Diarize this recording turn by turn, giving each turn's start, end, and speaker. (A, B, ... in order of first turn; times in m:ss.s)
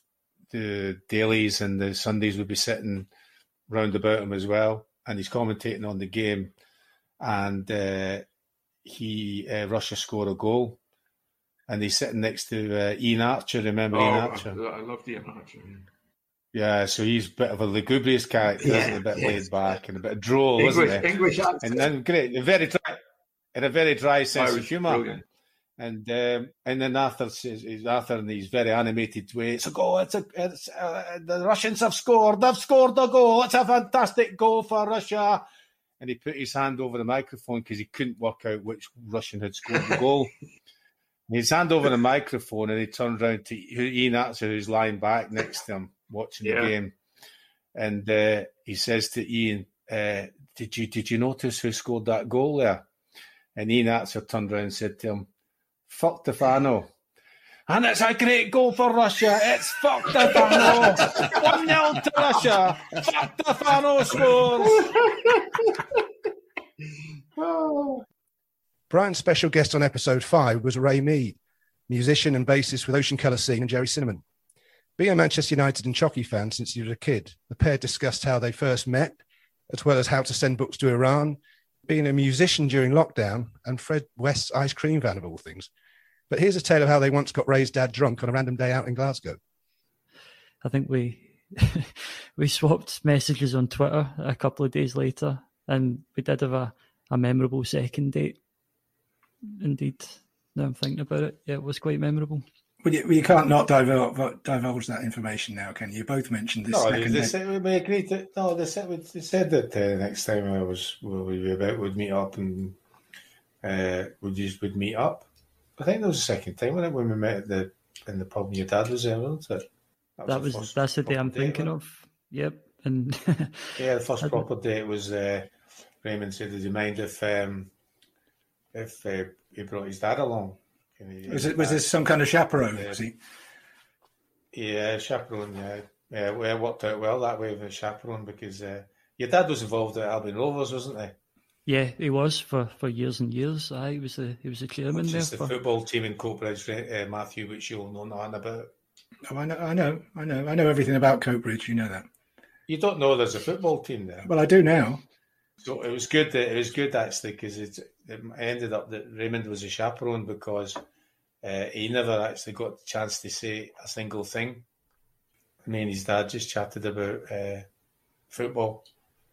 0:00.5-0:03.1 A
0:03.7-0:06.5 A
0:07.2-0:08.2 A
0:08.8-0:10.8 A
0:11.7-0:14.6 A
0:13.9-0:15.8 B
0:16.5-0:21.1 A
0:18.6-0:19.4 B
0:20.6-0:21.9 B
0:21.6-0:23.0 A
0:23.5-0:25.0 A
0:24.3-0:25.2 B
0:25.8-0:35.4 A
0:36.0-0:40.3 A
0:41.3-0:46.9 A
0:46.4-0:46.7 B
0:47.7-0:52.8 A
0:53.6-0:55.3 A
0:55.9-0:56.9 A
0:57.7-1:04.9 A
1:00.4-1:01.6 B
1:08.9-1:11.4 C
1:11.9-1:14.2 C
1:15.0-1:25.7 C
1:26.3-1:29.4 C
1:30.6-1:38.4 D
1:39.6-1:42.4 D
1:42.8-1:47.3 E
1:46.7-1:52.8 A
1:53.6-1:55.2 A
1:55.8-1:59.7 A
2:00.2-2:01.7 A
2:00.2-2:04.4 D
2:03.8-2:05.5 A
2:06.0-2:07.7 A
2:08.7-2:13.0 A
2:11.3-2:13.1 E
2:14.5-2:21.1 A
2:21.6-2:25.5 D
2:24.9-2:28.7 A
2:29.3-2:32.0 E
2:32.7-2:34.3 A
2:34.2-2:35.0 E
2:35.6-2:40.8 A
2:41.4-2:44.6 A
2:45.6-2:47.6 A
2:48.3-2:48.8 A